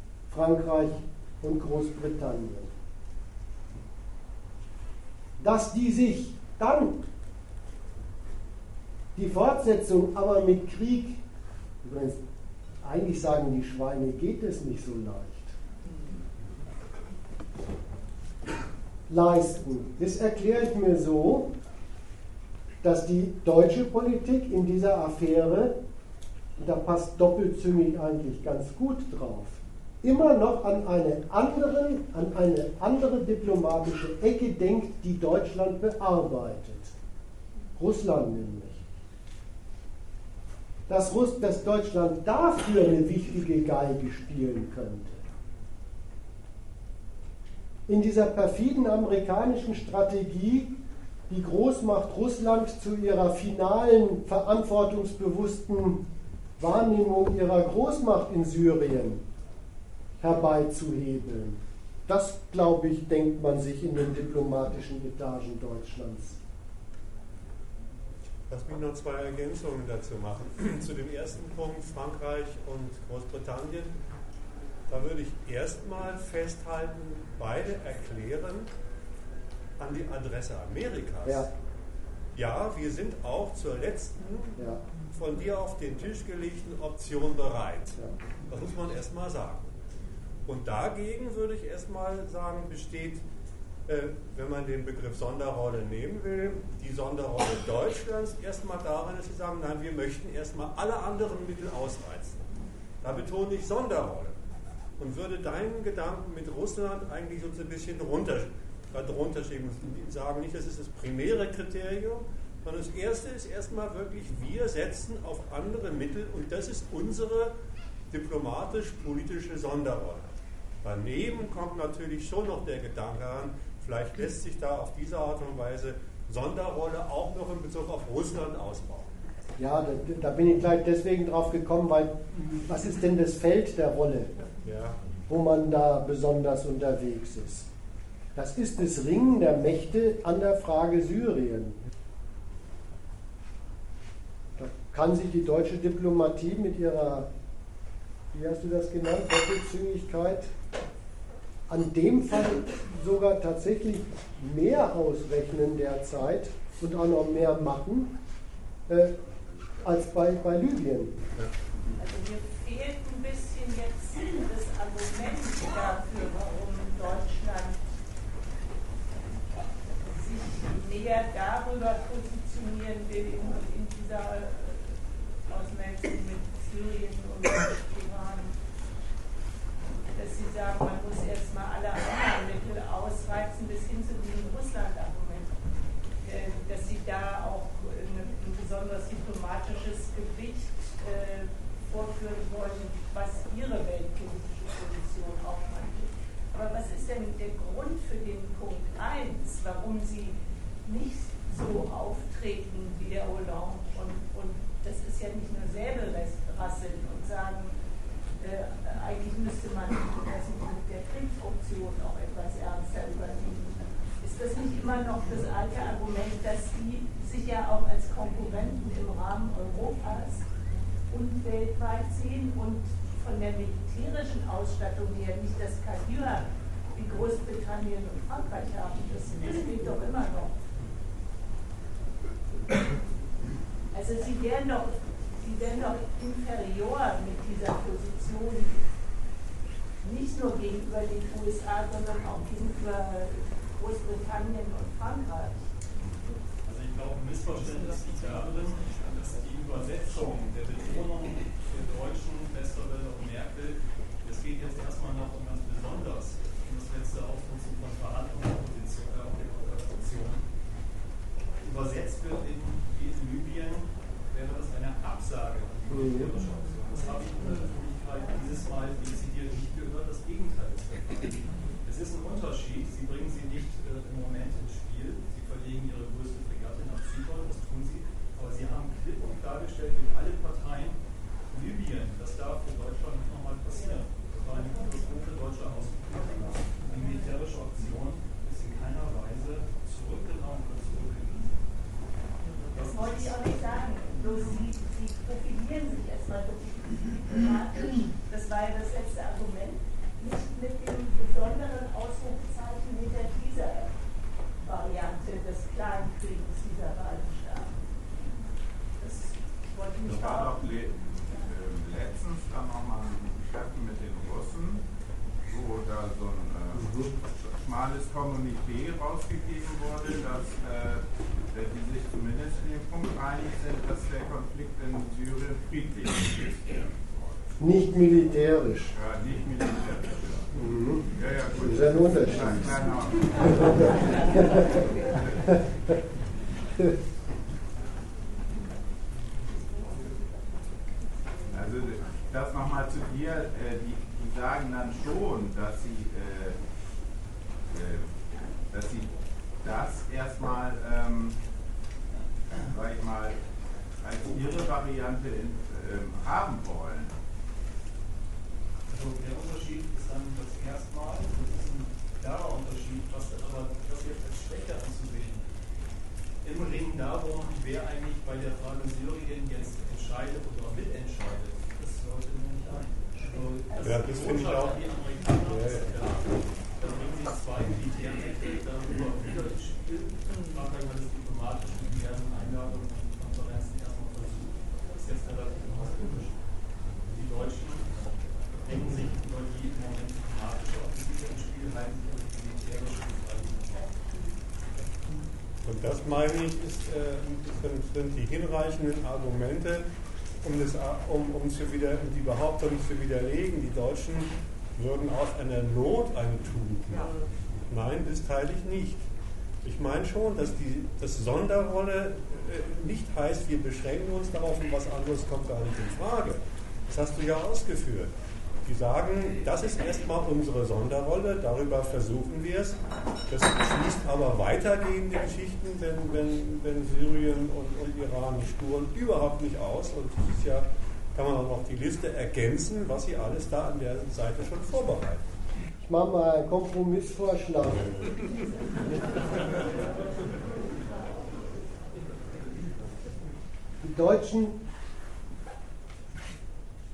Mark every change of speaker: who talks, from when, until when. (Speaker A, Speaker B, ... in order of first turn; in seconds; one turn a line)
Speaker A: 0.3-2.7
Speaker A: 5.4-7.0
Speaker A: 9.1-11.2
Speaker A: 11.8-12.2
Speaker A: 12.8-15.5
Speaker A: 19.1-21.5
Speaker A: 22.8-25.7
Speaker A: 26.6-36.9
Speaker A: 37.8-38.8
Speaker A: 40.9-45.2
Speaker A: 47.9-50.7
Speaker A: 51.3-56.0
Speaker A: 56.6-59.2
Speaker A: 60.2-66.4
Speaker B: 68.5-73.9
Speaker B: 74.9-78.7
Speaker B: 79.8-81.5
Speaker B: 82.3-84.5
Speaker B: 85.1-89.7
Speaker B: 90.5-93.2
Speaker B: 93.8-102.4
Speaker B: 103.0-104.4
Speaker B: 105.0-117.5
Speaker B: 118.1-129.1
Speaker A: 129.6-134.4
Speaker B: 134.6-135.0
Speaker A: 135.3-137.7
Speaker A: 138.3-141.8
Speaker A: 144.6-147.3
Speaker A: 148.3-150.5
Speaker A: 151.7-158.1
Speaker A: 158.9-159.1
Speaker A: 159.8-161.4
Speaker C: 162.0-167.8
Speaker C: 170.1-178.6
Speaker C: 180.1-185.5
Speaker C: 186.2-207.8
Speaker C: 208.4-220.4
Speaker C: 221.1-230.5
Speaker C: 233.9-238.8
Speaker C: 240.0-245.6
Speaker D: 246.6-260.4
Speaker D: 261.6-281.0
Speaker A: 265.9-266.3
Speaker C: 267.5-268.6
Speaker D: 281.5-291.5
Speaker C: 283.7-285.1
Speaker D: 292.7-293.2
Speaker C: 292.8-303.9
Speaker C: 304.6-307.8
Speaker C: 309.0-311.4
Speaker E: 310.0-314.8
Speaker E: 315.4-327.4
Speaker A: 316.7-317.1
Speaker A: 327.6-328.9
Speaker E: 328.9-330.5
Speaker A: 330.5-332.7
Speaker E: 331.1-335.6
Speaker A: 333.4-334.8
Speaker E: 341.5-346.6
Speaker E: 347.7-348.1
Speaker E: 348.7-351.4
Speaker E: 352.7-353.4
Speaker E: 354.0-357.1
Speaker D: 358.9-365.5
Speaker D: 366.4-386.3
Speaker C: 373.2-374.3
Speaker B: 373.8-374.8
Speaker B: 375.4-375.9
Speaker D: 387.1-387.9
Speaker D: 388.6-393.9
Speaker B: 395.6-399.9
Speaker B: 400.4-407.1
Speaker B: 407.7-409.0
Speaker B: 409.6-418.1
Speaker B: 418.6-435.2
Speaker A: 435.8-438.2
Speaker A: 443.8-444.6